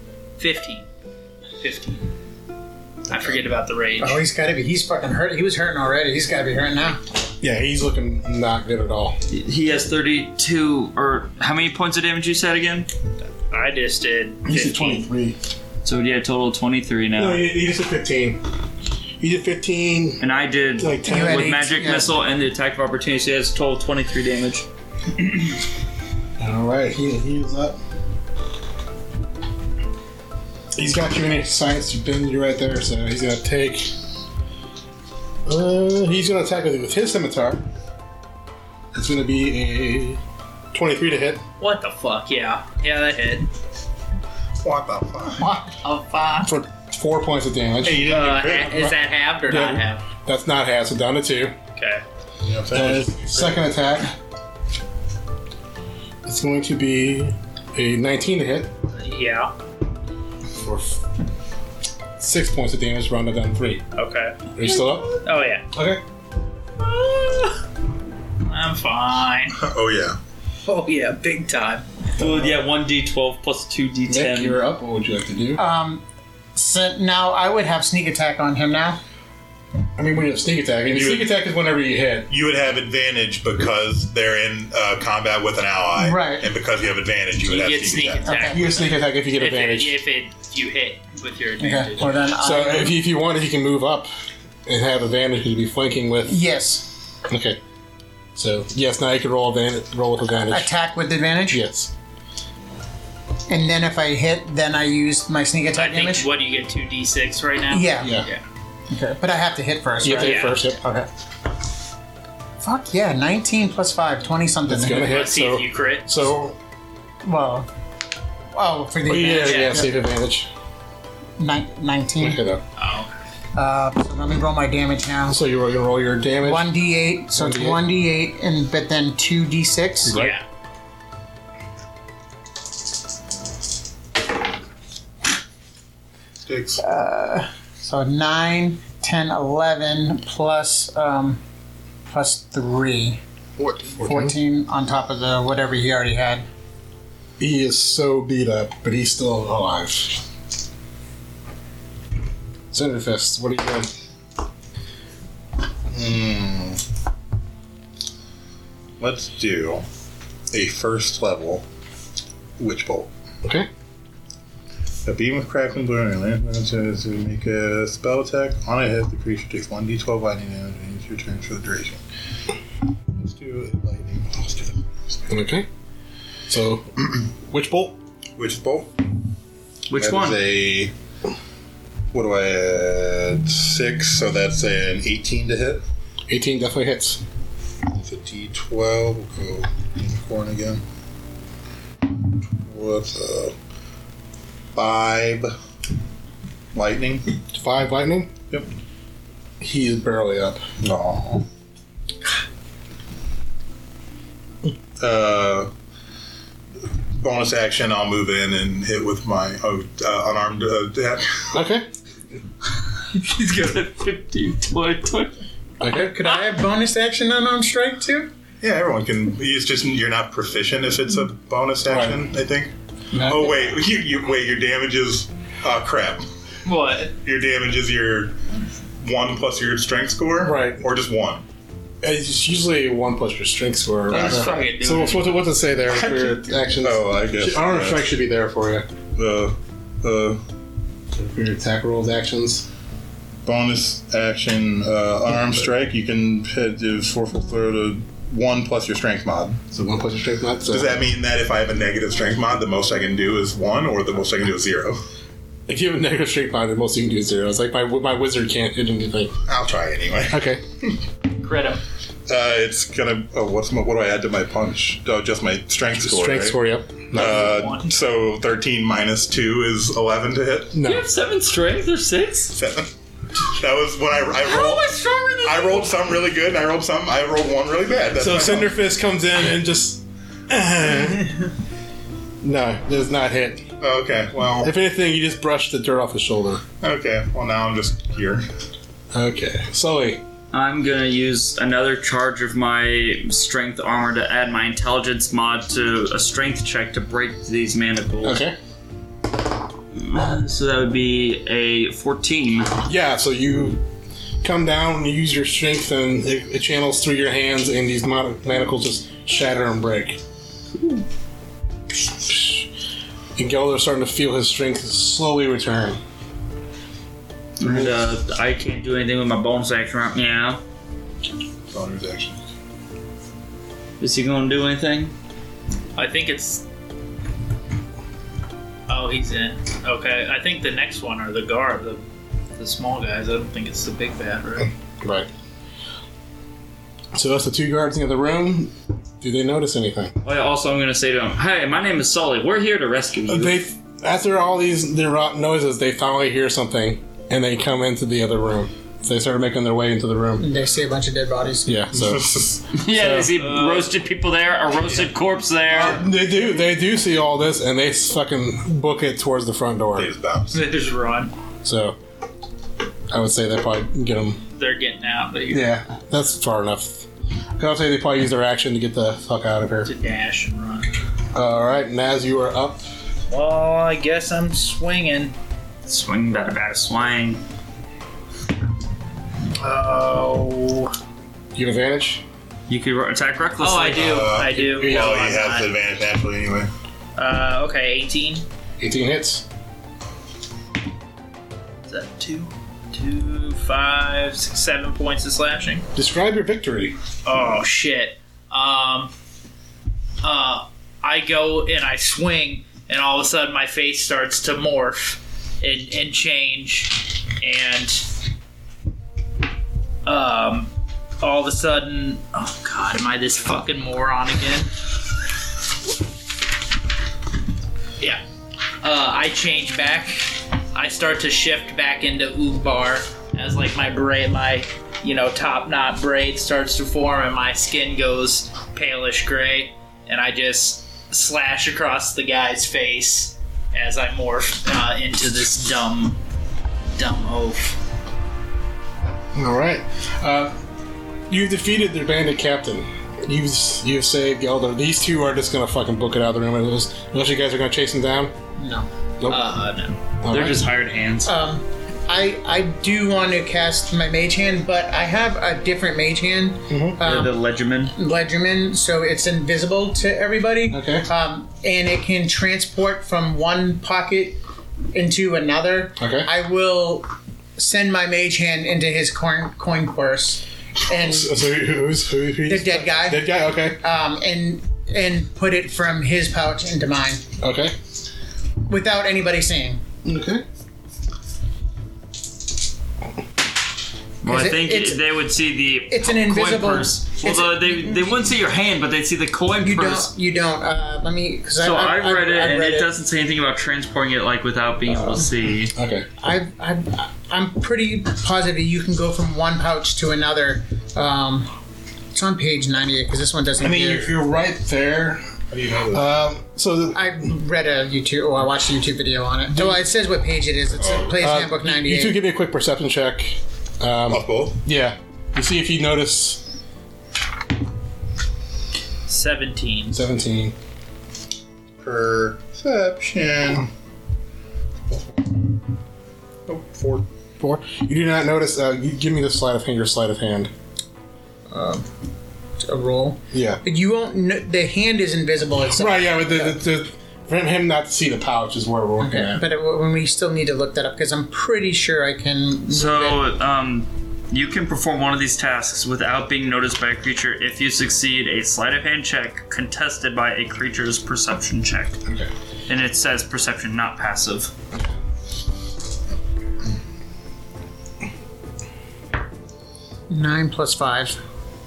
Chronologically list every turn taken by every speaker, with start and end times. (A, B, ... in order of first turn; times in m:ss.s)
0:00.4-0:00.9 A
0:01.6-0:02.1 A
0:03.1-0:04.2 A
0:03.1-0:03.4 B
0:04.0-0:07.0 C
0:07.4-0:09.2 D
0:09.3-0:12.9 E
0:13.4-0:15.0 A
0:14.4-0:15.4 D
0:15.8-0:17.4 E
0:17.2-0:18.4 D
0:19.2-0:20.2 D
0:20.2-0:24.7 E
0:20.8-0:21.5 D
0:21.0-0:22.1 C
0:26.4-0:27.8 D
0:30.7-0:33.9 D
0:35.4-0:37.6 D
0:38.9-0:40.2 D
0:40.7-0:41.4 D
0:41.6-0:43.5 A
0:44.6-0:45.5 B
0:45.4-0:45.8 C
0:45.8-0:46.5 A
0:46.4-0:48.2 D
0:47.8-0:48.9 B
0:48.0-0:50.0 A
0:49.5-0:51.5 D
0:51.8-0:52.0 A
0:52.4-0:53.6 B
0:52.7-0:54.1 D
0:56.2-0:58.7 D
0:58.9-0:59.5 A
1:00.6-1:01.0 D
1:02.2-1:03.8 D
1:03.9-1:04.5 A
1:04.5-1:05.2 D
1:05.1-1:05.6 A
1:05.7-1:06.0 D
1:06.8-1:07.6 A
1:08.4-1:09.6 A
1:09.6-1:10.2 B
1:10.6-1:11.9 A
1:12.2-1:14.6 E
1:12.2-1:12.5 D
1:14.1-1:15.6 D
1:15.6-1:16.0 C
1:16.6-1:19.0 C
1:20.0-1:22.3 D
1:20.8-1:21.3 B
1:22.3-1:28.3 B
1:26.0-1:26.5 C
1:27.4-1:32.2 A
1:28.2-1:28.6 C
1:28.5-1:30.0 D
1:31.6-1:33.0 C
1:32.3-1:34.1 D
1:34.6-1:36.4 D
1:36.2-1:36.9 C
1:37.3-1:37.6 D
1:38.4-1:40.7 D
1:40.4-1:41.6 C
1:41.5-1:41.9 D
1:43.5-1:46.3 C
1:45.7-1:48.4 A
1:47.7-1:48.2 C
1:48.0-1:48.3 D
1:48.9-1:51.1 C
1:50.0-1:50.8 D
1:50.1-1:50.6 A
1:52.6-1:55.1 C
1:54.7-1:56.6 D
1:54.9-1:56.1 A
1:57.2-1:57.7 C
1:58.5-1:59.9 C
1:59.1-2:00.5 D
1:59.3-1:59.8 A
2:01.4-2:02.4 C
2:02.2-2:02.6 D
2:02.8-2:03.1 A
2:03.5-2:05.4 C
2:05.3-2:06.7 D
2:06.4-2:10.2 C
2:07.3-2:07.8 D
2:10.1-2:10.4 A
2:16.4-2:16.8 B
2:16.8-2:21.4 C
2:22.1-2:23.2 C
2:24.0-2:24.4 D
2:24.0-2:26.4 C
2:27.4-2:30.2 D
2:32.7-2:33.9 D
2:35.9-2:36.8 B
2:39.0-2:39.9 B
2:40.5-2:41.6 B
2:42.6-2:43.1 B
2:45.0-2:52.0 B
2:53.2-2:55.2 B
2:55.3-2:55.7 D
2:56.5-2:56.9 D
2:57.4-2:58.0 D
2:58.4-2:58.9 B
2:59.9-3:00.4 E
3:00.0-3:00.9 B
3:02.1-3:05.8 B
3:06.3-3:07.2 D
3:07.9-3:10.8 B
3:12.6-3:13.5 B
3:14.7-3:15.5 B
3:16.7-3:17.2 B
3:17.5-3:18.3 D
3:19.6-3:20.6 D
3:20.8-3:21.4 B
3:25.0-3:25.7 B
3:27.1-3:31.5 B
3:31.5-3:31.9 D
3:33.1-3:35.4 E
3:35.8-3:36.1 D
3:35.9-3:38.3 C
3:38.6-3:46.2 B
3:41.9-3:42.2 D
3:43.1-3:43.5 C
3:46.6-3:47.1 A
3:47.2-3:48.4 B
3:49.0-3:51.4 B
3:50.4-3:50.8 D
3:52.0-3:58.9 D
3:54.1-3:55.2 A
3:54.1-3:55.2 E
3:56.8-3:58.0 B
3:59.1-4:00.4 B
4:01.1-4:02.7 D
4:03.4-4:09.7 B
4:09.7-4:11.0 D
4:10.7-4:15.0 B
4:15.7-4:19.3 D
4:19.5-4:20.4 B
4:20.3-4:20.6 D
4:21.4-4:21.8 A
4:22.3-4:26.6 B
4:26.0-4:27.5 D
4:27.1-4:30.7 B
4:27.2-4:27.9 A
4:30.7-4:31.1 D
4:30.8-4:32.6 E
4:32.5-4:32.9 B
4:33.5-4:38.7 B
4:34.5-4:35.9 A
4:38.2-4:41.3 D
4:42.4-4:43.6 D
4:43.8-4:44.7 B
4:44.6-4:46.6 D
4:46.8-4:48.4 B
4:49.1-4:50.2 D
4:50.5-4:58.4 E
4:58.2-4:58.6 D
4:59.9-5:02.7 E
5:02.8-5:03.8 D
5:04.4-5:10.2 D
5:12.2-5:12.7 D
5:13.4-5:16.0 D
5:17.6-5:20.6 E
5:17.6-5:17.9 D
5:21.7-5:22.4 B
5:24.0-5:25.1 E
5:25.9-5:26.6 A
5:28.9-5:32.0 A
5:32.6-5:34.7 A
5:35.0-5:35.3 D
5:37.1-5:40.1 D
5:40.2-5:43.6 E
5:43.3-5:50.5 D
5:50.4-5:51.8 C
5:51.6-5:53.3 D
5:51.9-5:52.6 B
5:52.7-5:56.0 E
5:53.4-5:53.9 A
5:55.7-6:00.1 D
5:59.9-6:00.7 B
6:00.5-6:01.3 A
6:01.6-6:02.0 D
6:03.1-6:04.4 D
6:04.6-6:05.8 A
6:05.5-6:09.9 D
6:09.8-6:10.9 A
6:11.3-6:12.9 D
6:13.3-6:15.3 A
6:15.9-6:17.4 E
6:19.6-6:20.9 A
6:21.5-6:22.2 D
6:22.7-6:24.3 E
6:23.6-6:25.7 A
6:24.0-6:26.7 B
6:24.7-6:25.2 D
6:27.2-6:28.4 A
6:28.8-6:29.4 D
6:31.9-6:35.9 A
6:36.0-6:37.0 D
6:37.2-6:39.1 A
6:40.2-6:48.1 A
6:50.0-6:54.7 A
6:58.8-7:16.2 A
7:16.9-7:17.8 A
7:19.3-7:20.5 D
7:21.3-7:28.3 D
7:28.6-7:28.9 C
7:29.2-7:30.0 A
7:30.2-7:30.7 D
7:30.3-7:31.3 E
7:31.2-7:37.3 C
7:36.7-7:37.0 D
7:37.0-7:37.9 E
7:37.9-7:44.4 C
7:40.7-7:41.0 D
7:44.9-7:51.3 C
7:46.0-7:46.3 D
7:51.0-7:53.8 D
7:52.5-7:57.2 C
7:57.4-7:57.8 D
7:58.7-7:59.8 C
8:00.0-8:00.4 D
8:04.2-8:10.1 E
8:04.2-8:05.0 C
8:05.9-8:08.2 C
8:09.6-8:12.9 C
8:11.6-8:15.7 E
8:15.7-8:16.1 D
8:16.2-8:21.5 C
8:22.1-8:24.1 C
8:23.6-8:25.3 D
8:25.5-8:26.0 B
8:25.9-8:27.2 D
8:26.9-8:32.2 C
8:30.8-8:31.1 B
8:31.2-8:36.4 D
8:34.1-8:34.6 B
8:39.1-8:40.0 A
8:39.9-8:40.5 D
8:41.8-8:43.7 B
8:44.9-8:45.2 B
8:46.5-8:47.0 B
8:47.4-8:50.5 D
8:51.5-8:51.9 C
8:52.6-8:56.6 C
8:53.3-8:53.6 D
8:55.7-8:59.4 D
8:59.0-9:03.2 C
9:02.7-9:12.0 E
9:12.0-9:12.3 D
9:12.7-9:14.5 E
9:20.1-9:21.2 C